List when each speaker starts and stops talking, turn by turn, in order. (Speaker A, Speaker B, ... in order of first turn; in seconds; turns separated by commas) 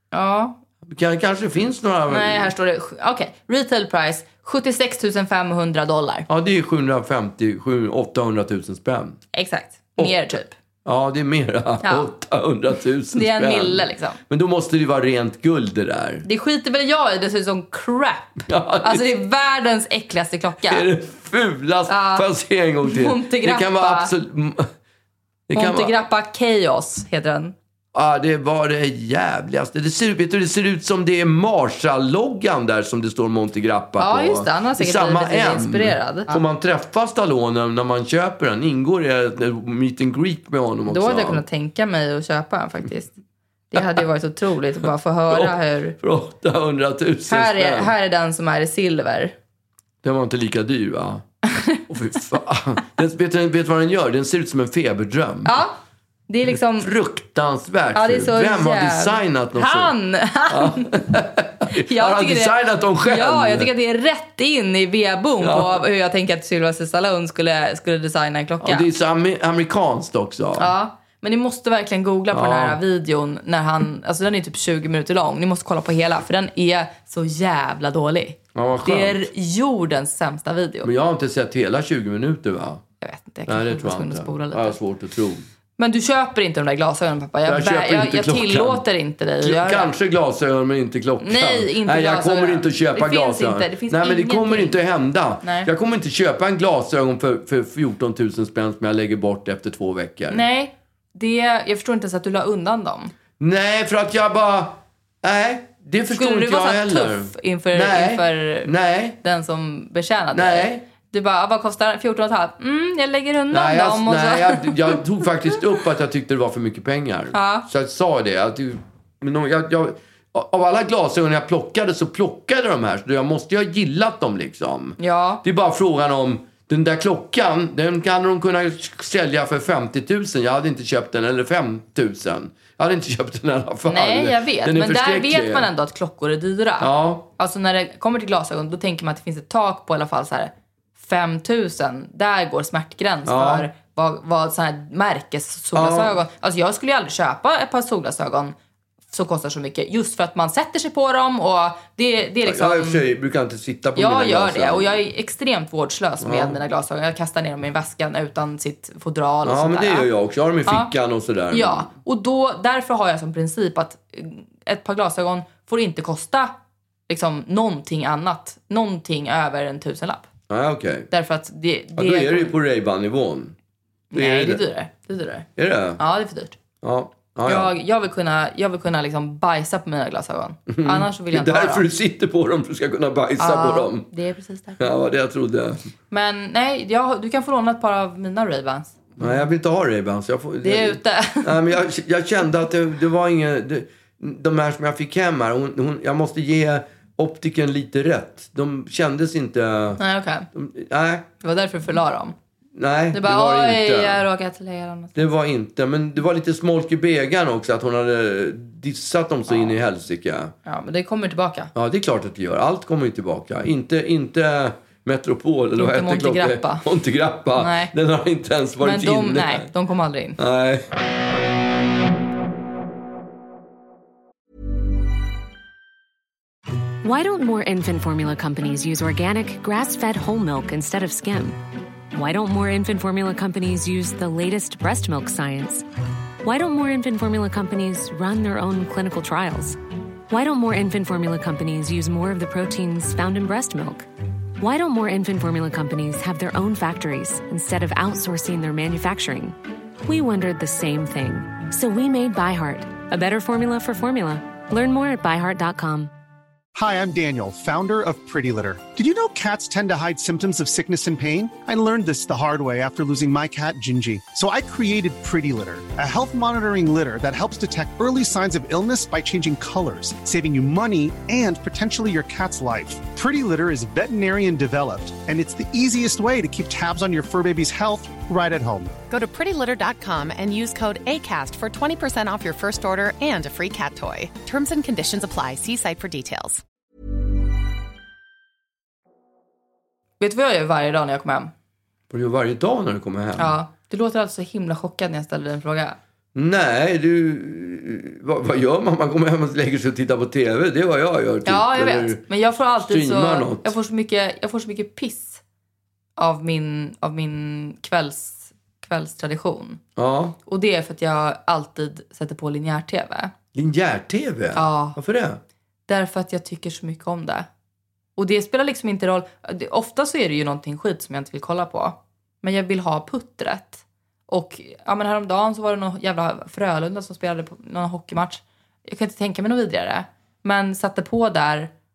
Speaker A: 0.1-0.6, Speaker B: 0.8-2.5, Speaker A: 2.1-6.3, Speaker B: 6.3-9.2, Speaker A: 9.3-10.5, Speaker B: 10.0-16.2, Speaker A: 11.8-12.1, Speaker A: 13.1-14.2, Speaker A: 16.2-20.9, Speaker B: 18.5-19.0, Speaker B: 20.7-24.7, Speaker A: 21.9-22.2, Speaker A: 22.8-24.1, Speaker B: 25.5-25.9, Speaker A: 25.5-27.5, Speaker B: 27.9-41.4, Speaker A: 34.0-36.4, Speaker A: 40.9-43.1, Speaker A: 43.7-46.0, Speaker B: 45.3-47.9, Speaker A: 47.3-49.3, Speaker B: 50.0-51.2, Speaker A: 51.5-51.8, Speaker B: 51.9-55.6, Speaker A: 55.4-55.8, Speaker A: 56.3-56.9, Speaker B: 56.8-59.9, Speaker A: 57.9-61.1, Speaker B: 60.5-63.7, Speaker A: 61.7-68.9, Speaker B: 65.4-65.8, Speaker B: 68.6-70.7, Speaker A: 70.6-80.9, Speaker B: 72.3-72.8, Speaker B: 78.5-79.2, Speaker B: 80.8-82.8, Speaker A: 83.0-84.8, Speaker B: 83.5-85.5, Speaker A: 85.8-89.9, Speaker B: 87.5-88.8, Speaker B: 89.4-100.4, Speaker A: 91.2-94.8, Speaker A: 95.4-95.7, Speaker A: 100.3-103.1, Speaker B: 103.4-109.2, Speaker A: 106.1-108.7, Speaker A: 109.2-115.0, Speaker B: 110.3-110.8, Speaker B: 113.5-135.7, Speaker A: 117.3-117.7, Speaker A: 125.0-125.4, Speaker A: 133.9-148.5, Speaker B: 136.8-137.3, Speaker B: 143.2-143.7, Speaker B: 145.7-146.2, Speaker A: 149.1-153.0, Speaker B: 152.4-155.0, Speaker A: 153.9-160.1, Speaker B: 156.2-156.6, Speaker B: 159.4-161.9, Speaker A: 161.5-166.5, Speaker A: 167.1-170.2, Speaker B: 170.5-171.1, Speaker A: 171.1-172.5, Speaker B: 172.0-173.5, Speaker A: 174.1-175.5, Speaker B: 174.1-174.6, Speaker B: 175.6-176.0, Speaker A: 176.0-176.5, Speaker B: 176.8-177.7, Speaker A: 177.4-181.8, Speaker B: 180.7-184.1, Speaker A: 183.4-184.9, Speaker B: 184.8-185.9, Speaker A: 186.1-189.4, Speaker B: 189.2-200.0, Speaker A: 190.6-191.5, Speaker A: 200.0-200.4, Speaker B: 200.5-201.2, Speaker A: 201.4-202.3, Speaker B: 202.8-204.2, Speaker A: 203.1-205.3, Speaker B: 205.1-210.5, Speaker A: 209.5-209.7, Speaker A: 210.6-211.7, Speaker B: 211.7-219.7, Speaker A: 215.8-216.8, Speaker A: 217.6-217.9, Speaker A: 218.8-220.4, Speaker B: 220.4-220.9, Speaker C: 227.0-231.6, Speaker C: 232.1-235.8, Speaker C: 236.4-239.8, Speaker C: 240.3-244.1, Speaker C: 244.6-256.1, Speaker D: 256.7-279.0, Speaker E: 279.1-286.6, Speaker A: 290.2-291.5, Speaker B: 292.1-293.6, Speaker A: 293.4-295.9, Speaker B: 296.3-302.2, Speaker A: 301.4-305.4, Speaker B: 302.9-303.7, Speaker A: 306.2-309.8, Speaker B: 309.9-310.4, Speaker A: 310.4-313.3, Speaker B: 313.5-315.4, Speaker A: 314.5-315.0, Speaker A: 315.9-317.5, Speaker A: 318.2-331.7